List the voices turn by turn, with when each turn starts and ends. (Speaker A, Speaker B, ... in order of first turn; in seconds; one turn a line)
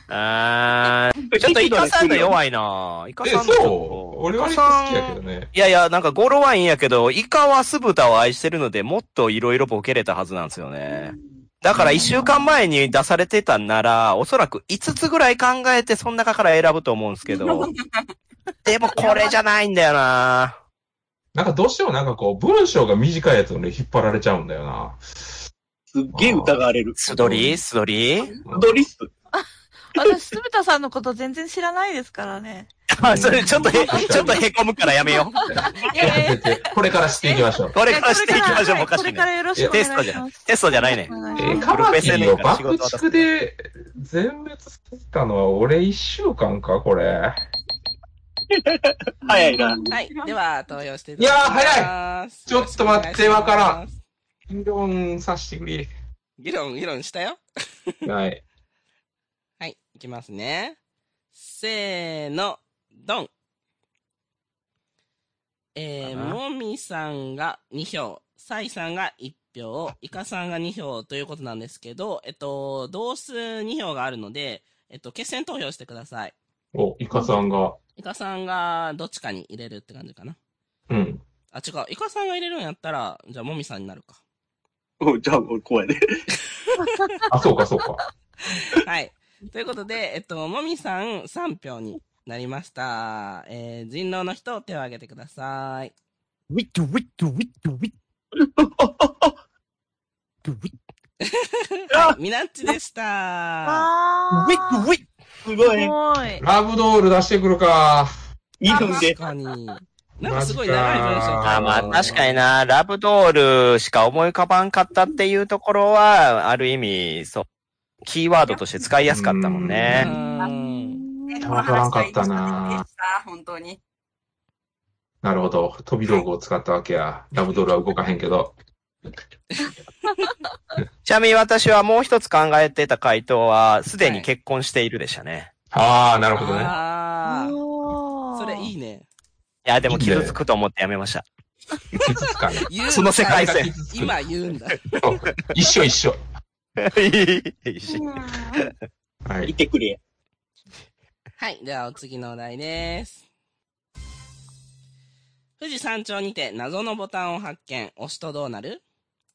Speaker A: 0.1-17.7
Speaker B: 1.3-2.3
Speaker C: 3.2-5.5
Speaker D: 10.9-11.2
Speaker E: 12.0-12.3
Speaker D: 17.3-17.8
Speaker A: 18.6-20.6
Speaker C: 21.3-25.0
Speaker B: 25.9-27.0
Speaker C: 26.1-27.6
Speaker A: 27.0-28.3
Speaker C: 28.4-28.9
Speaker B: 28.5-29.1
Speaker E: 29.3-32.7
Speaker A: 32.9-35.3
Speaker C: 33.0-34.4
Speaker E: 33.7-34.3
Speaker E: 34.9-36.7
Speaker C: 35.5-37.8
Speaker E: 37.3-42.0
Speaker A: 37.7-43.3
Speaker C: 39.5-39.8
Speaker C: 41.3-47.4
Speaker B: 48.5-49.8
Speaker D: 49.2-50.4
Speaker F: 49.9-54.0
Speaker C: 51.2-51.9
Speaker C: 52.5-53.8
Speaker C: 54.5-55.9
Speaker F: 56.4-57.9
Speaker C: 58.0-58.4
Speaker F: 59.6-60.8
Speaker F: 61.3-63.3
Speaker F: 65.7-76.3
Speaker A: 66.0-66.4
Speaker C: 76.7-77.8
Speaker F: 78.0-80.3
Speaker C: 80.9-81.2
Speaker F: 81.5-84.2
Speaker B: 85.0-86.0
Speaker F: 86.5-87.0
Speaker E: 86.8-87.2
Speaker C: 87.3-88.0
Speaker F: 88.7-95.9
Speaker A: 96.5-97.9
Speaker B: 98.4-99.3
Speaker A: 100.5-100.7
Speaker F: 101.2-103.9
Speaker B: 101.9-102.2
Speaker E: 103.6-104.9
Speaker A: 104.3-105.0
Speaker B: 105.4-105.9
Speaker E: 105.6-106.4
Speaker C: 106.4-108.1
Speaker B: 108.6-109.2
Speaker F: 108.7-112.5
Speaker D: 108.7-109.0
Speaker C: 110.2-112.2
Speaker A: 111.4-117.5
Speaker A: 118.0-120.1
Speaker C: 119.1-120.1
Speaker F: 119.9-121.0
Speaker E: 120.0-121.6
Speaker D: 121.3-123.8
Speaker C: 121.4-122.8
Speaker C: 125.2-128.5
Speaker F: 129.6-130.2
Speaker A: 131.0-135.5
Speaker F: 134.0-134.3
Speaker C: 135.7-136.7
Speaker F: 136.3-137.6
Speaker E: 137.2-138.7
Speaker F: 138.3-139.1
Speaker A: 139.6-141.2
Speaker C: 139.8-140.4
Speaker C: 141.9-144.2
Speaker F: 142.6-145.0
Speaker A: 142.9-143.7
Speaker C: 144.9-146.2
Speaker A: 146.8-148.7
Speaker D: 147.9-148.7
Speaker C: 149.2-149.6
Speaker B: 149.5-150.0
Speaker F: 151.4-153.2
Speaker F: 155.6-158.8